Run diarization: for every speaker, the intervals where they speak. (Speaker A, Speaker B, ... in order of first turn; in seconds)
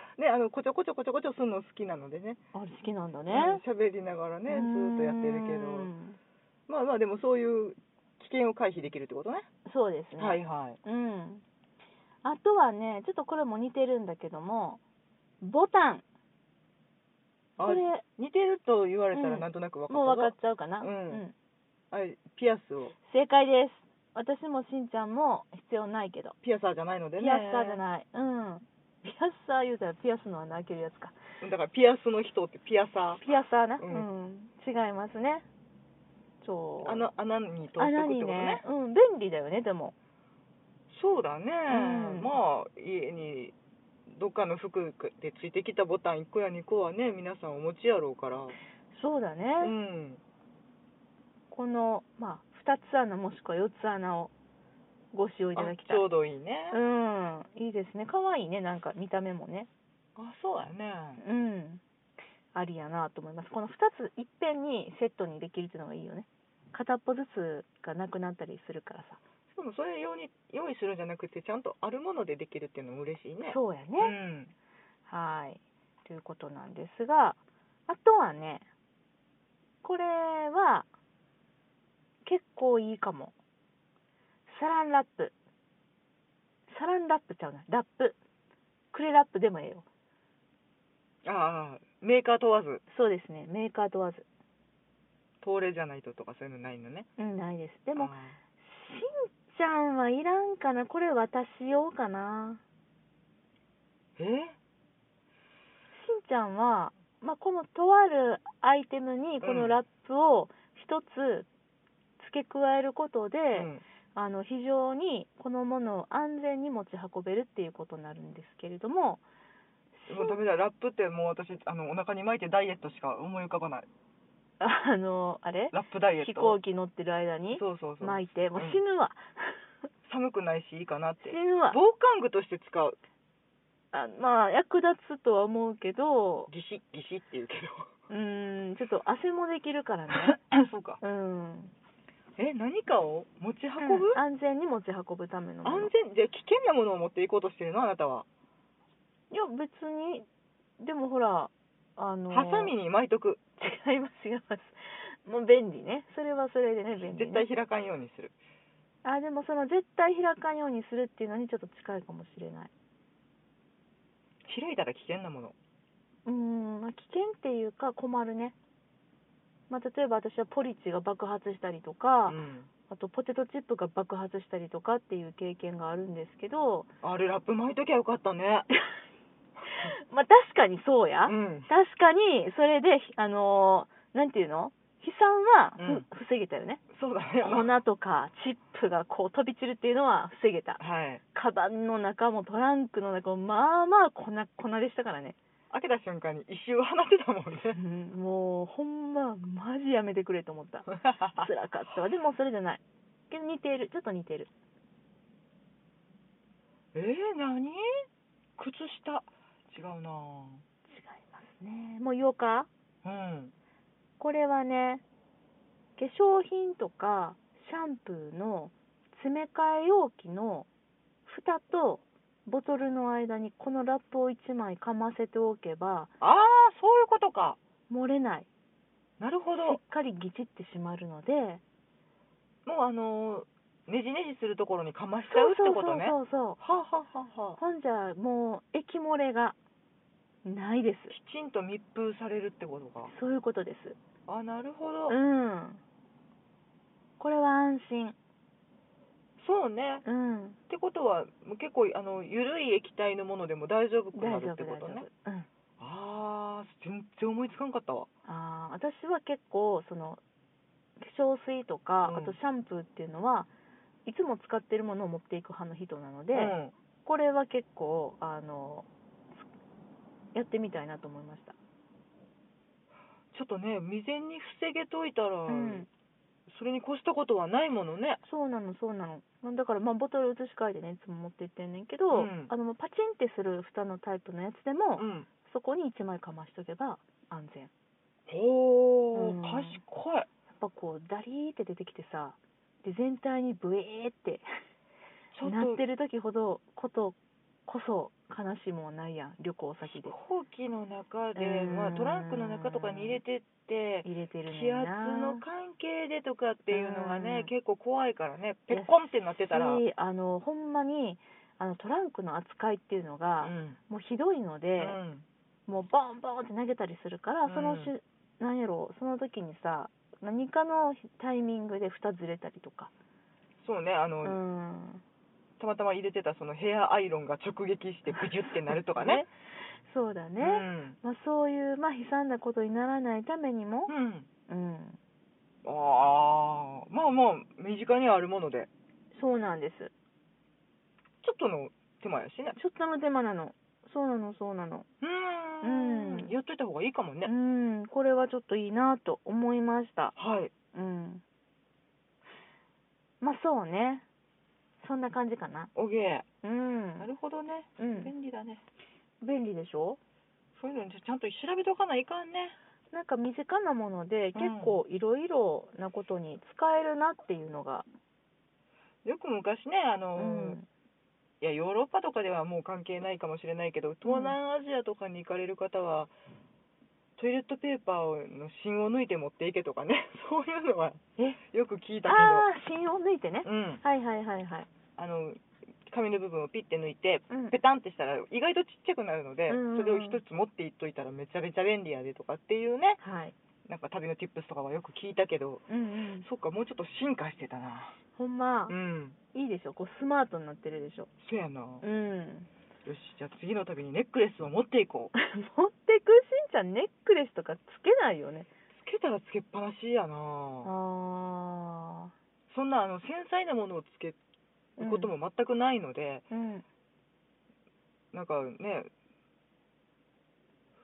Speaker A: 0.2-2.4, 3.3-5.9, 6.7-9.5, 10.2-10.8, 17.6-21.2, 21.9-23.0, 26.4-27.8, 31.4-33.2, 33.8-34.1, 36.8-38.6, 40.9-43.5, 44.1-48.5, 49.6-50.2, 55.5-56.8, 60.1-61.2, 69.5-74.5, 91.2-92.8, 95.4-97.1, 98.0-98.4, 104.2-104.5, 109.4-109.8, 113.5-113.8, 120.1-123.9, 125.7-126.6, 127.5-128.8, 130.0-133.0, 136.5-137.9, 140.3-141.0, 142.4-144.2, 145.6-148.3, 152.3-153.4, 157.0-158.3, 164.5-165.5, 172.3-172.7, 177.0-178.7, 181.3-181.7, 185.8-186.1, 186.9-187.7, 190.8-191.2, 195.7-197.8, 201.1-201.5, 206.9-207.8, 208.6-210.6, 213.0-213.5, 226.2-227.6, 229.2-229.8, 232.6-237.6, 241.1-243.1, 244.3-245.2, 249.4-250.0, 250.7-255.1, 255.8-258.1, 262.0-262.4, 266.3-266.7, 273.3-275.9, 276.5-278.2, 282.1-282.5, 285.0-285.3, 288.3-290.3, 295.3-295.8, 299.9-309.8, 313.4-313.8, 314.8-315.2, 317.5-317.9, 323.6-324.4, 325.6-329.2, 330.4-331.0, 333.9-334.3, 335.6-338.7, 341.2-342.6, 345.0-347.3, 350.1-350.5, 355.8-356.2, 357.0-358.6, 360.6-362.6, 364.3-364.8, 369.0-370.6, 371.4-376.1, 377.2-382.5, 383.4-383.8, 385.0-393.0, 393.7-395.6, 396.2-397.9, 398.7-399.2, 401.2-401.8, 402.8-405.1, 408.7-410.7, 412.5-414.2, 414.8-416.2, 418.1-418.9
Speaker B: 2.5-3.6, 4.5-6.2, 9.7-11.4, 12.2-14.8, 15.4-16.0, 17.6-18.0, 19.1-21.3, 23.1-26.4, 27.2-31.1, 33.2-35.5, 36.4-37.1, 37.8-39.9, 41.7-42.4, 48.9-49.7, 51.5-54.3, 55.1-56.0, 56.7-59.7, 61.2-61.8, 62.5-69.2, 73.4-74.1, 75.1-78.7, 79.8-80.9, 82.2-83.3, 84.5-85.3, 86.7-88.2, 88.9-89.9, 92.9-94.2, 97.2-102.6, 105.9-111.5, 112.2-119.2, 120.0-120.4, 124.6-129.6, 131.2-131.8, 133.9-136.5, 138.1-140.4, 141.0-141.7, 143.8-145.9, 149.3-150.3, 150.8-152.7, 153.6-157.5, 159.0-162.7, 166.2-168.5, 169.7-176.9, 179.7-186.8, 187.4-190.8, 191.3-195.4, 197.7-204.5, 210.9-212.7, 214.2-215.0, 216.0-220.7, 221.2-226.1, 227.9-228.5, 229.6-231.6, 235.3-236.6, 237.6-239.6, 240.4-241.2, 243.1-244.0, 245.1-245.8, 247.2-248.2, 250.0-250.6, 254.1-255.5, 258.2-260.2, 261.0-263.5, 264.1-268.9, 270.3-271.6, 275.5-275.9, 278.2-287.7, 289.1-289.8, 290.6-294.5, 295.4-300.1, 301.4-303.2, 304.0-305.4, 306.7-307.5, 308.7-308.9, 309.5-315.0, 315.7-322.9, 324.2-325.0, 328.9-333.9, 334.5-335.0, 339.1-339.9, 342.6-344.9, 345.6-346.3, 347.2-350.1, 350.7-351.2, 353.2-354.0, 354.8-355.7, 356.4-357.1, 357.8-358.1, 359.2-360.0, 362.9-367.9, 370.2-370.7, 374.0-374.4, 382.0-384.7, 387.3-387.6, 389.5-390.2, 393.0-393.3, 395.7-396.3, 398.2-398.8, 399.3-401.1, 401.8-402.5, 405.1-408.5, 410.6-412.1, 414.8-415.1, 416.3-416.6